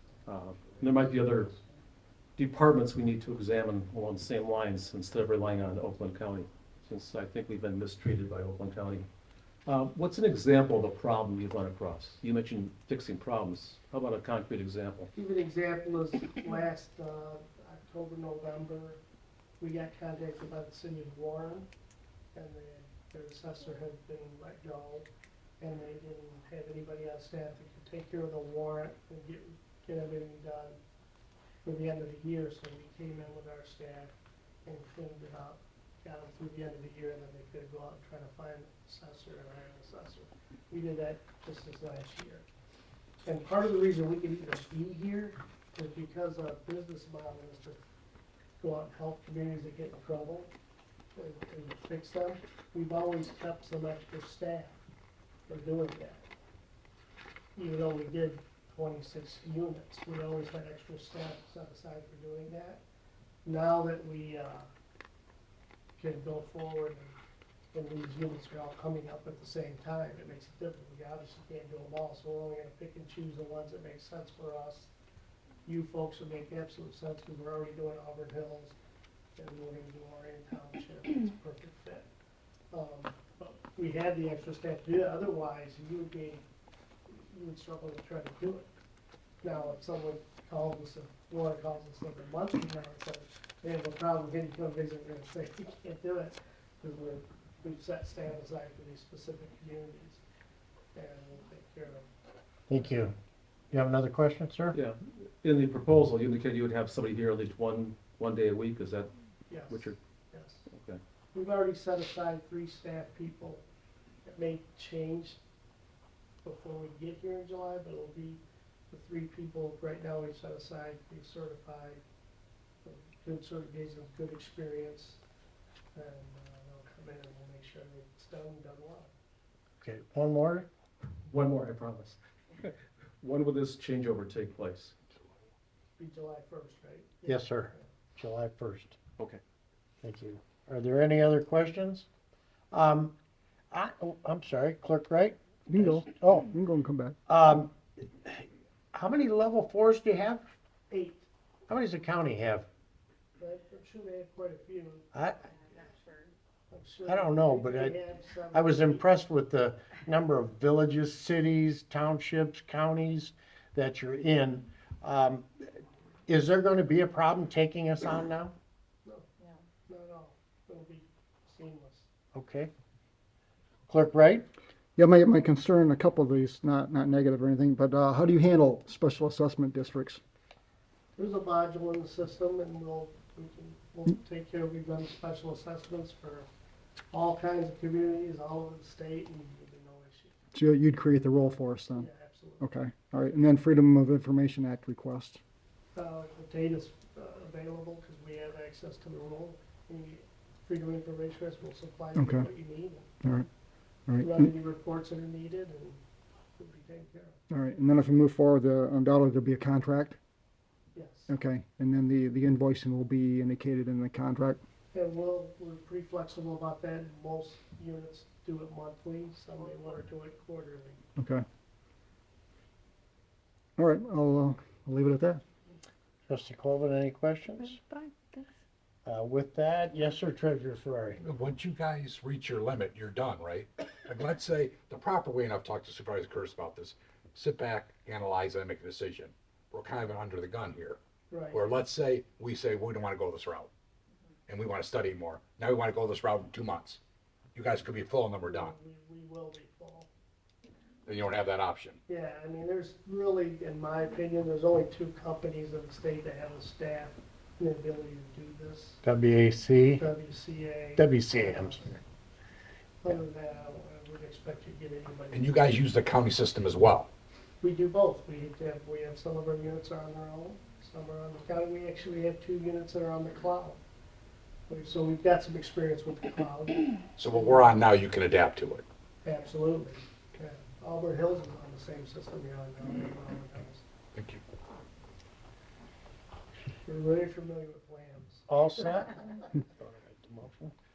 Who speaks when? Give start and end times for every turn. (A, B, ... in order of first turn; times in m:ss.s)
0:00.2-0:01.5 A
0:02.4-0:09.1 A
0:09.6-0:15.1 A
0:15.1-0:19.0 B
0:19.6-0:21.7 B
0:22.3-0:25.1 B
0:25.6-0:30.8 B
0:31.6-0:34.1 B
0:34.6-0:42.5 B
0:43.2-0:47.8 B
0:48.6-0:50.5 B
0:51.1-0:54.8 B
0:55.5-0:56.3 B
0:57.6-1:02.8 B
1:03.4-1:04.7 B
1:06.0-1:07.2 B
1:07.7-1:14.9 B
1:15.6-1:18.8 B
1:19.4-1:22.1 B
1:22.7-1:26.4 B
1:27.1-1:28.7 B
1:29.4-1:40.2 B
1:40.9-1:42.0 B
1:42.7-1:43.1 C
1:43.7-1:44.8 C
1:44.7-1:49.1 A
1:49.5-1:50.7 B
1:49.7-1:50.0 A
1:50.7-1:51.0 A
1:51.3-1:53.6 B
1:54.2-1:55.4 B
1:56.4-2:02.0 B
2:02.8-2:05.2 B
2:05.9-2:09.1 B
2:09.8-2:10.7 C
2:11.3-2:14.9 A
2:16.0-2:17.9 B
2:17.2-2:19.0 C
2:20.0-2:22.1 C
2:22.7-2:23.2 C
2:23.7-2:26.5 C
2:25.7-2:27.2 D
2:27.3-2:30.5 C
2:30.9-2:31.3 B
2:31.7-2:32.7 C
2:33.4-2:35.1 B
2:35.1-2:35.5 C
2:36.7-2:39.1 B
2:37.0-2:38.0 C
2:38.5-2:45.7 C
2:46.3-2:48.5 C
2:49.0-2:52.1 B
2:52.3-2:52.7 C
2:53.9-2:54.4 C
2:55.0-3:00.2 D
3:01.1-3:06.5 B
3:07.1-3:10.4 B
3:10.5-3:12.1 D
3:11.9-3:12.7 B
3:12.6-3:15.4 D
3:15.9-3:23.1 B
3:22.1-3:22.5 D
3:23.2-3:23.5 D
3:24.1-3:24.5 D
3:24.2-3:26.0 B
3:26.6-3:27.4 B
3:27.5-3:30.2 D
3:30.9-3:31.3 B
3:31.3-3:34.6 D
3:34.9-3:41.0 B
3:41.2-3:41.4 D
3:43.8-3:45.4 D
3:46.3-3:47.8 C
3:49.0-3:51.2 C
3:51.2-4:01.0 E
4:01.3-4:01.6 B
4:01.5-4:03.7 E
4:04.5-4:07.0 E
4:07.5-4:08.7 E
4:08.4-4:10.1 B
4:11.0-4:12.0 E
4:12.1-4:19.0 B
4:19.0-4:20.0 C
4:20.0-4:22.0 B
4:21.0-4:21.8 C
4:23.0-4:25.7 B
4:25.3-4:27.1 E
4:27.6-4:33.8 B
4:34.7-4:37.8 B
4:37.2-4:38.8 E
4:39.2-4:43.8 B
4:44.1-4:44.4 E
4:46.8-4:48.5 B
4:48.5-4:50.7 C